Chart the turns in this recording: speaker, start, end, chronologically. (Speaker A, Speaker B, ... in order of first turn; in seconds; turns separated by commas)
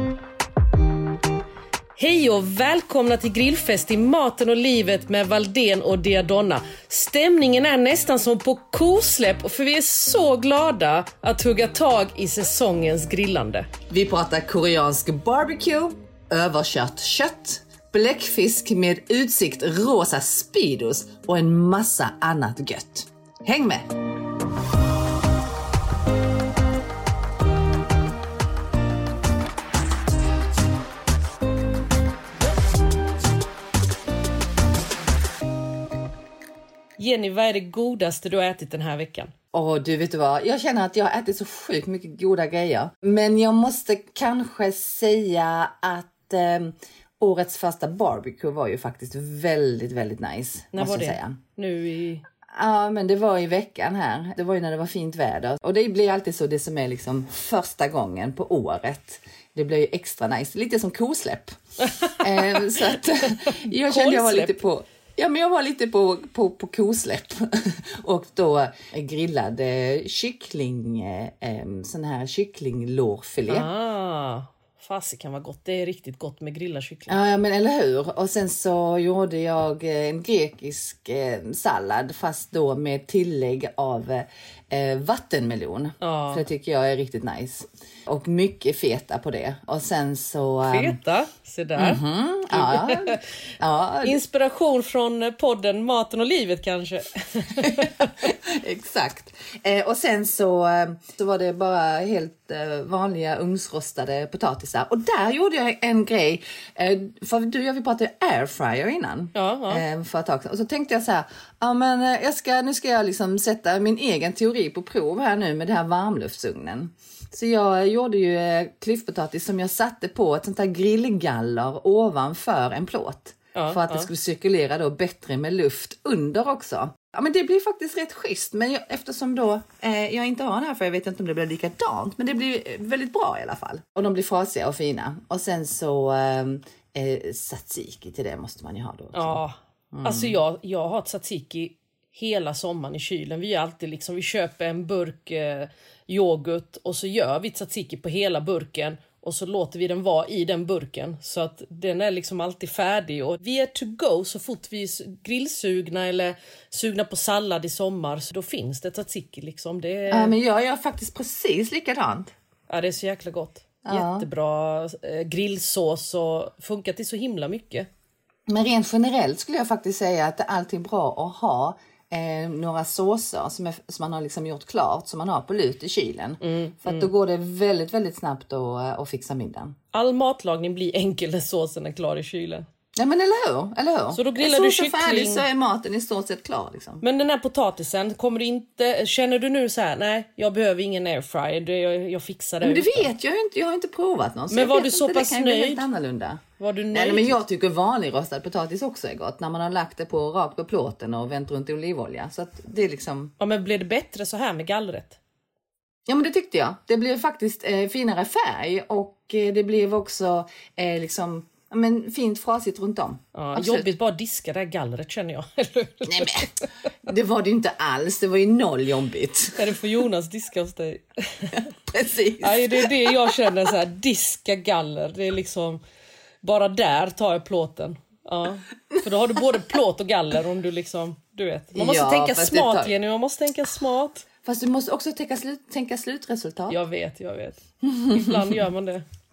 Speaker A: 1.9-13.7, Speaker B: 13.9-23.9, Speaker A: 37.0-39.3, Speaker B: 39.5-51.4, Speaker A: 50.7-52.2, Speaker B: 52.5-61.6, Speaker A: 62.0-62.7, Speaker B: 62.1-73.7, Speaker A: 63.2-64.6, Speaker A: 73.5-77.2, Speaker B: 77.1-91.0, Speaker A: 86.0-86.5, Speaker A: 90.6-93.2, Speaker B: 91.8-94.2, Speaker A: 94.0-98.1, Speaker B: 97.6-139.4, Speaker A: 109.3-109.8, Speaker A: 123.5-124.1, Speaker A: 139.1-160.3, Speaker B: 139.9-140.4, Speaker B: 160.1-162.3, Speaker A: 162.7-167.9, Speaker B: 163.8-164.3, Speaker B: 168.5-179.8, Speaker A: 176.4-177.1, Speaker A: 179.9-182.7, Speaker B: 183.0-187.0, Speaker A: 184.1-185.5, Speaker A: 187.0-193.1, Speaker B: 192.6-196.4, Speaker A: 194.5-195.8, Speaker A: 196.6-197.4, Speaker B: 196.9-203.3, Speaker A: 203.4-205.2, Speaker B: 206.1-213.9, Speaker A: 213.3-216.7, Speaker B: 216.1-216.5, Speaker B: 217.0-219.6, Speaker A: 219.6-221.6, Speaker B: 221.9-223.5, Speaker A: 222.4-225.8, Speaker A: 226.4-234.3, Speaker B: 231.7-232.9, Speaker B: 234.4-236.8, Speaker A: 236.7-239.0, Speaker B: 237.8-238.6